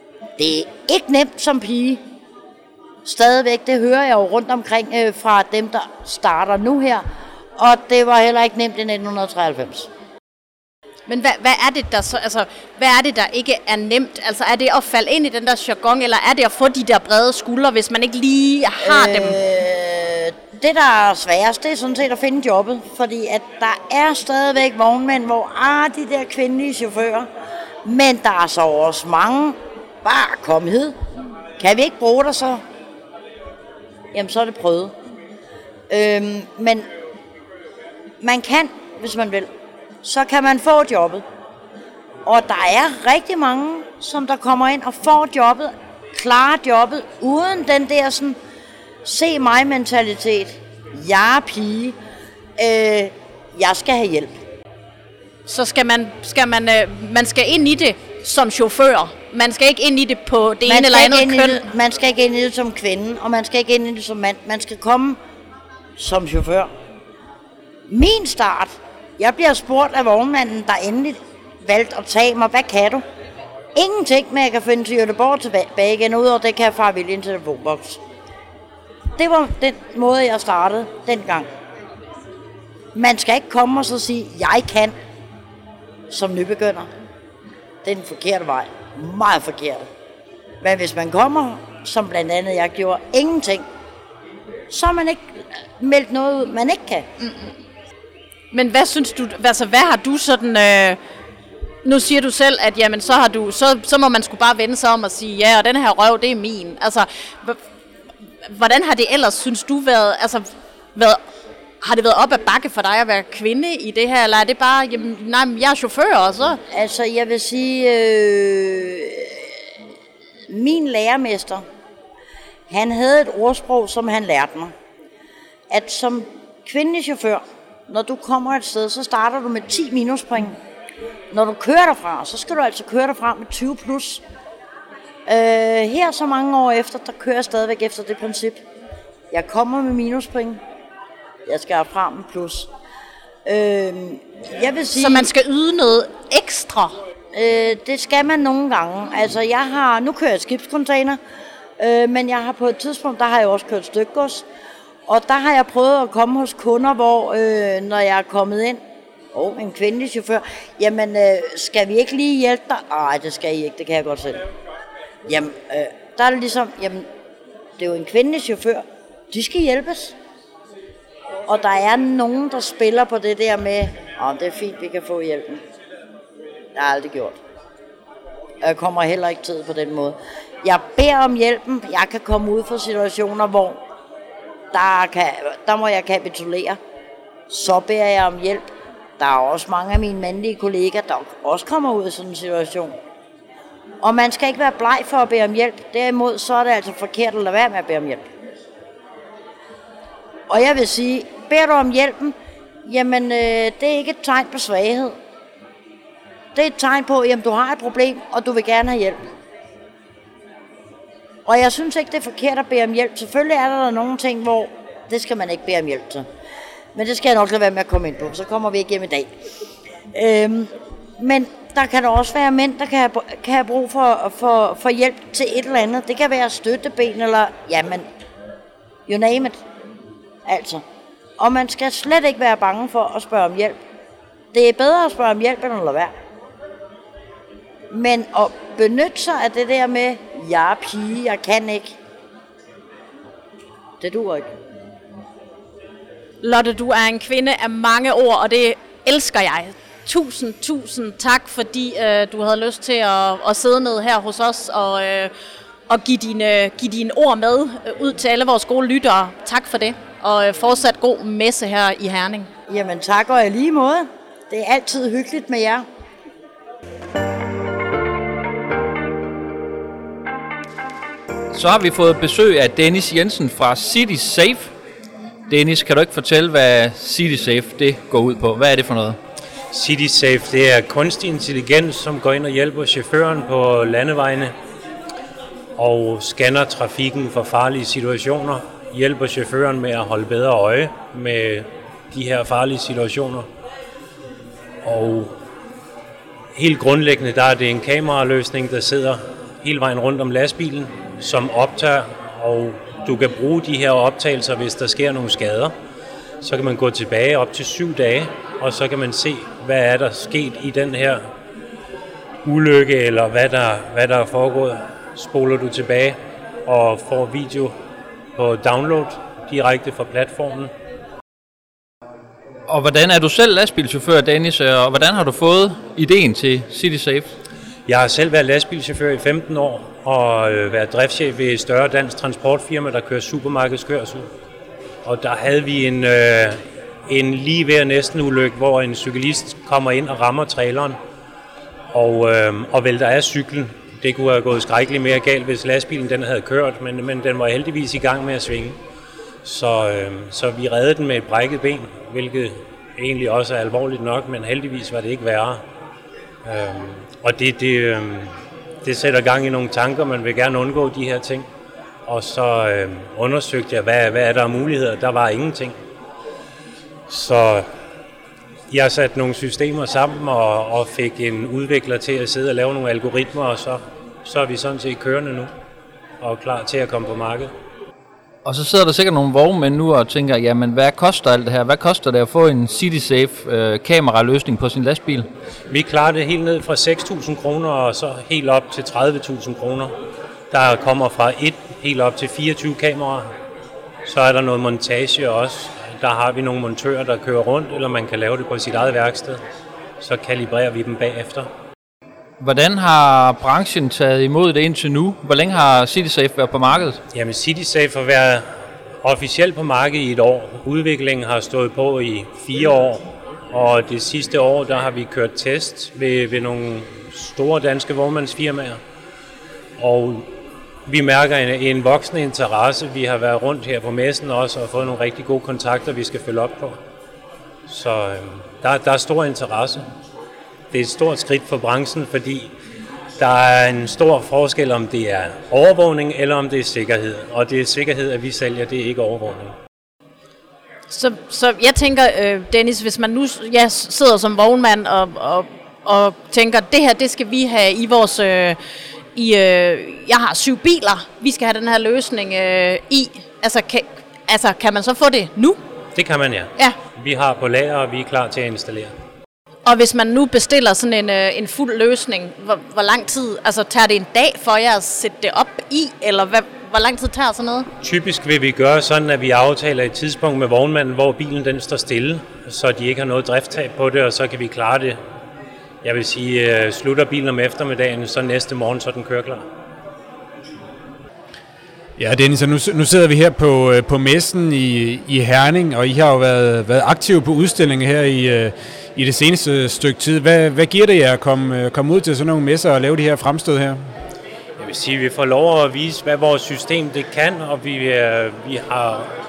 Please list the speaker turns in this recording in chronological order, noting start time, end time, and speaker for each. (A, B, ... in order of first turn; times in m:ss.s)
0:00.4-0:02.0 A
0:03.0-0:07.0 A
0:07.6-0:09.9 A
0:11.1-0:19.4 B
0:18.8-0:27.3 A
0:27.8-0:31.0 A
0:31.6-0:32.6 A
0:34.1-0:34.9 A
0:35.9-0:36.9 A
0:38.2-0:39.5 A
0:40.0-0:41.2 A
0:42.2-0:48.4 A
0:49.0-0:52.0 A
0:52.6-0:54.4 A
0:55.4-1:01.6 B
1:00.6-1:05.2 A
1:06.0-1:06.7 A
1:07.9-1:13.0 A
1:13.7-1:18.0 A
1:19.2-1:21.5 A
1:22.9-1:24.9 A
1:26.1-1:26.9 A
1:27.8-1:29.9 A
1:30.6-1:33.6 A
1:34.7-1:37.1 A
1:38.5-1:41.0 B
1:41.8-1:47.6 B
1:48.4-1:51.2 B
1:51.8-1:56.6 B
1:56.7-1:59.5 A
2:00.5-2:01.6 A
2:02.7-2:04.7 A
2:05.7-2:10.6 A
2:11.3-2:14.2 A
2:15.2-2:18.6 A
2:19.3-2:20.6 A
2:21.4-2:22.7 A
2:23.4-2:25.3 A
2:24.9-2:27.0 B
2:27.3-2:31.2 A
2:31.8-2:34.4 A
2:35.1-2:38.8 A
2:39.3-2:44.4 A
2:45.2-2:47.0 A
2:47.8-2:50.1 A
2:51.5-2:55.6 A
2:56.7-2:57.4 A
2:58.6-3:03.8 A
3:04.7-3:06.8 A
3:07.5-3:13.0 A
3:14.0-3:18.3 A
3:20.5-3:25.2 A
3:26.5-3:29.2 A
3:31.4-3:36.2 A
3:36.9-3:39.3 A
3:40.1-3:48.0 A
3:49.1-3:49.6 A
3:50.4-3:50.8 A
3:51.4-3:53.8 A
3:54.5-3:56.1 A
3:57.9-4:02.0 A
4:04.0-4:04.5 A
4:06.4-4:15.3 B
4:15.9-4:22.5 B
4:22.7-4:25.8 A
4:31.5-4:34.7 C
4:35.5-4:39.2 C
4:39.7-4:44.5 D
4:45.8-4:53.5 D
4:54.8-4:55.4 D
4:56.5-5:05.7 D
5:06.4-5:11.2 D
5:12.4-5:17.7 D
5:18.4-5:20.7 D
5:22.7-5:27.3 C
5:27.8-5:34.3 D
5:35.0-5:41.0 D
5:41.9-5:48.8 D
5:49.4-5:55.6 D
5:56.4-6:01.5 D
6:02.1-6:05.8 D
6:07.1-6:07.7 D
6:08.7-6:15.5 D
6:16.2-6:17.5 D
6:18.4-6:25.3 C
6:25.7-6:29.9 D
6:30.5-6:33.3 D
6:34.0-6:39.4 D
6:40.0-6:41.5 D
6:42.4-6:47.0 C
6:47.1-6:48.5 D
6:49.0-6:58.8 D
6:59.8-7:00.3 D
7:00.8-7:06.8 D
7:07.7-7:09.8 D
7:10.7-7:12.5 D
7:13.2-7:19.5 D
7:20.9-7:28.6 B
7:29.1-7:35.6 B
7:35.9-7:38.9 D
7:39.6-7:47.7 B
7:47.8-7:55.0 D
7:55.8-7:59.4 D
8:02.0-8:13.8 E
8:14.6-8:19.1 D